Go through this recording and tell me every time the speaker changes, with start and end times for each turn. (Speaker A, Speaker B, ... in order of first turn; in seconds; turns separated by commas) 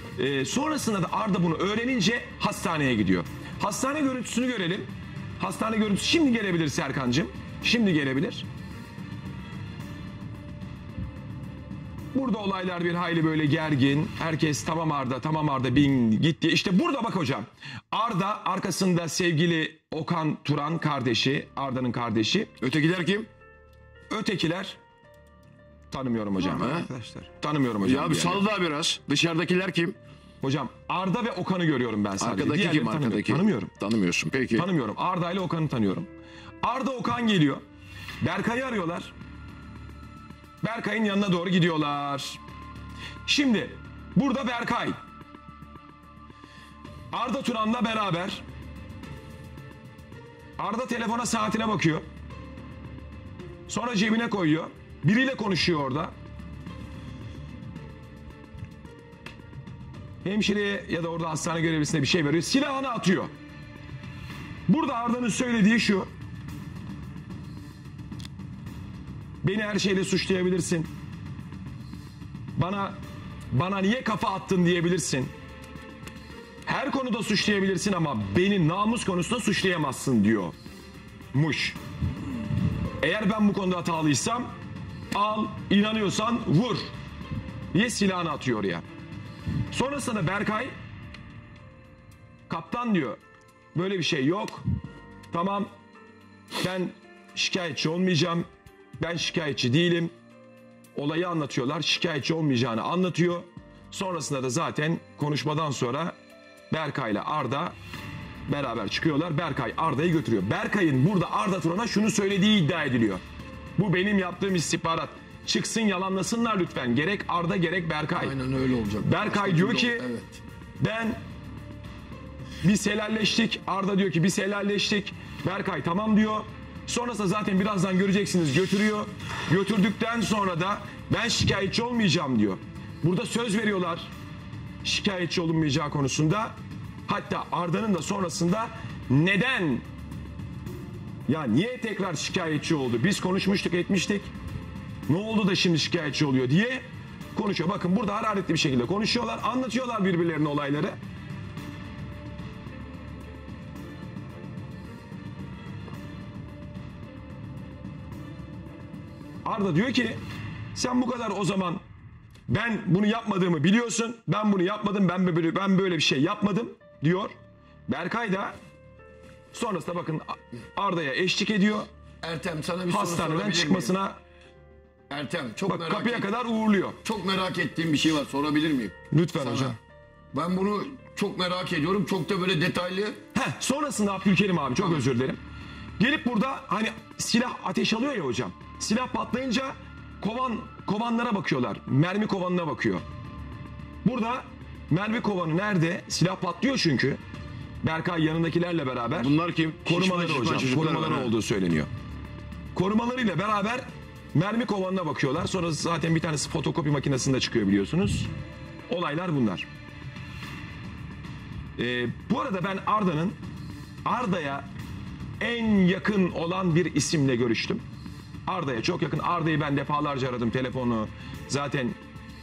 Speaker A: 0.2-8.5, Speaker A: 12.1-22.5, Speaker B: 22.6-23.3, Speaker A: 24.1-24.8, Speaker A: 25.9-28.4, Speaker B: 26.5-26.9, Speaker B: 27.8-30.0, Speaker A: 30.4-33.7, Speaker B: 32.2-34.7, Speaker A: 34.5-36.1, Speaker A: 36.6-37.6, Speaker A: 38.2-39.1, Speaker A: 40.6-42.4, Speaker A: 43.3-45.0, Speaker A: 47.1-48.4, Speaker A: 50.6-52.0, Speaker A: 53.7-56.1, Speaker A: 60.2-63.3, Speaker A: 64.7-66.1, Speaker A: 69.4-70.9, Speaker A: 72.6-73.0, Speaker A: 73.5-75.3, Speaker A: 76.7-80.5, Speaker A: 81.3-81.8, Speaker A: 83.0-84.5, Speaker A: 85.1-86.9, Speaker A: 87.7-88.8, Speaker A: 89.7-90.7, Speaker A: 92.5-93.2, Speaker A: 93.8-94.6, Speaker A: 95.3-95.7, Speaker A: 96.6-98.5, Speaker A: 99.0-100.1, Speaker A: 101.0-106.2, Speaker A: 106.7-107.7, Speaker A: 108.5-113.2, Speaker A: 113.8-118.3, Speaker C: 118.2-120.4, Speaker A: 119.0-120.0, Speaker A: 120.8-121.2, Speaker A: 122.6-134.1, Speaker A: 134.8-136.6, Speaker A: 137.1-139.8, Speaker A: 141.3-144.3, Speaker A: 145.1-151.0, Speaker A: 159.4-160.2, Speaker A: 160.7-161.8, Speaker A: 162.5-167.3, Speaker A: 167.9-168.6, Speaker A: 169.5-171.9, Speaker C: 172.2-173.9, Speaker A: 172.9-174.2, Speaker C: 175.1-176.3, Speaker A: 175.7-177.0, Speaker C: 177.0-179.8, Speaker A: 179.1-179.8, Speaker C: 180.3-183.2, Speaker A: 183.3-185.4, Speaker C: 184.8-185.0, Speaker A: 186.0-193.0, Speaker A: 194.1-197.2, Speaker A: 197.8-199.3, Speaker B: 199.2-201.3, Speaker A: 199.8-201.9, Speaker A: 202.8-208.3, Speaker A: 208.9-209.7, Speaker A: 211.8-213.4, Speaker A: 214.1-214.7, Speaker A: 215.4-217.8, Speaker A: 218.5-222.0